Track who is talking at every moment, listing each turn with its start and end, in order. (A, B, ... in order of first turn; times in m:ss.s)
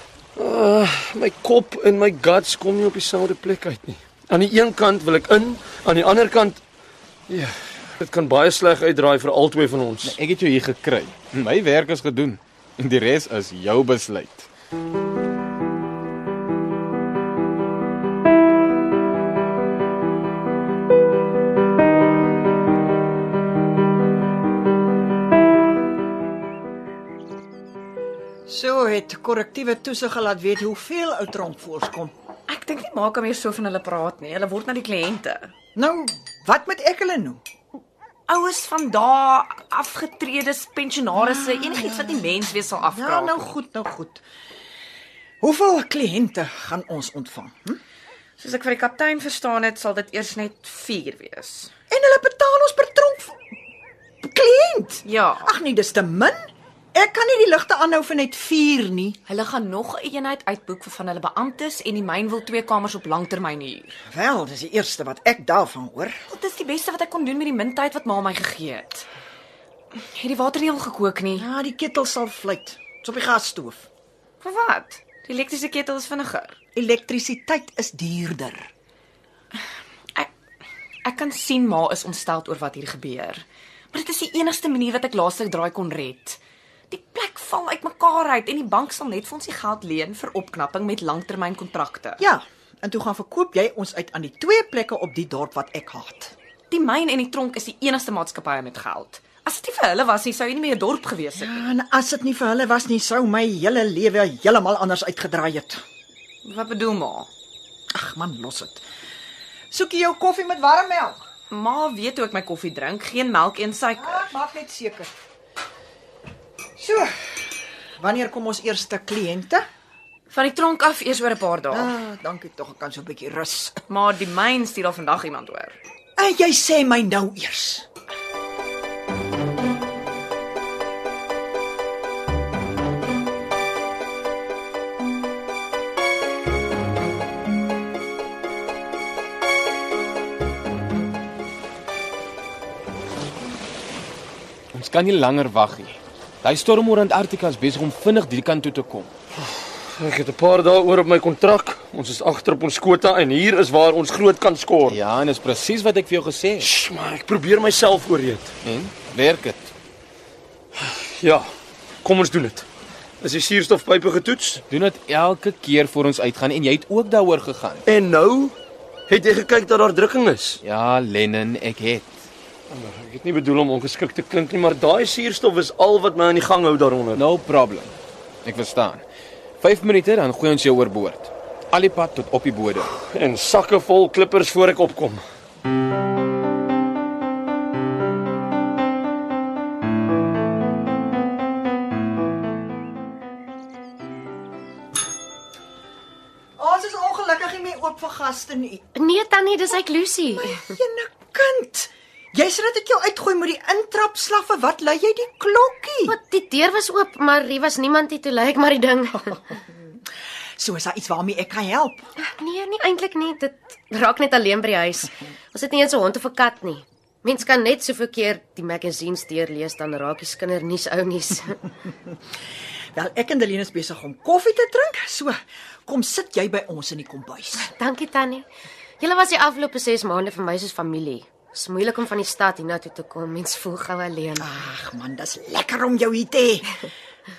0:00.4-0:06.6 A
0:07.3-0:10.2 A
0:10.0-0:14.5 B
0:28.4-0:32.1 C
0:32.5-0:35.5 D
0:35.8-0:37.4 C
0:38.3-0:43.5 D
0:41.2-0:44.2 C
0:45.4-0:47.8 C
0:48.4-0:51.7 D
0:51.9-0:53.4 C
0:54.2-0:56.4 C
0:55.0-0:55.6 D
0:56.9-0:59.2 C
0:59.3-1:04.0 D
1:04.1-1:06.2 C
1:06.3-1:09.1 D
1:10.0-1:11.4 D
1:11.3-1:13.9 C
1:14.4-1:16.6 D
1:16.7-1:18.7 C
1:21.0-1:26.4 D
1:26.9-1:32.2 D
1:32.2-1:36.3 C
1:36.7-1:41.6 D
1:41.3-1:45.8 C
1:46.4-1:47.3 D
1:47.9-1:48.8 C
1:49.7-1:51.2 C
1:51.5-1:54.2 D
1:54.0-1:55.1 C
1:56.8-1:57.1 C
1:58.0-1:59.6 C
2:00.3-2:01.9 D
2:01.7-2:03.8 C
2:03.9-2:05.8 D
2:06.2-2:07.8 C
2:24.7-2:29.1 B
2:29.9-2:35.0 A
2:34.8-2:36.7 B
2:36.6-2:38.5 A
2:38.6-2:39.7 B
2:40.7-2:41.5 A
2:42.0-2:42.6 A
2:43.2-2:44.6 A
2:44.7-2:47.8 B
2:47.8-2:48.6 A
2:49.1-2:50.6 A
2:50.6-2:52.2 B
2:52.7-2:57.2 A
2:57.2-2:59.0 B
2:59.6-3:02.9 B
3:03.0-3:05.2 A
3:16.6-3:18.9 C
3:19.0-3:20.6 E
3:19.8-3:26.2 C
3:26.1-3:29.4 E
3:29.5-3:30.0 C
3:30.6-3:32.1 C
3:32.2-3:41.6 E
3:42.9-3:47.7 C
3:47.6-3:48.4 E
3:49.0-3:54.5 E
3:54.4-3:56.8 C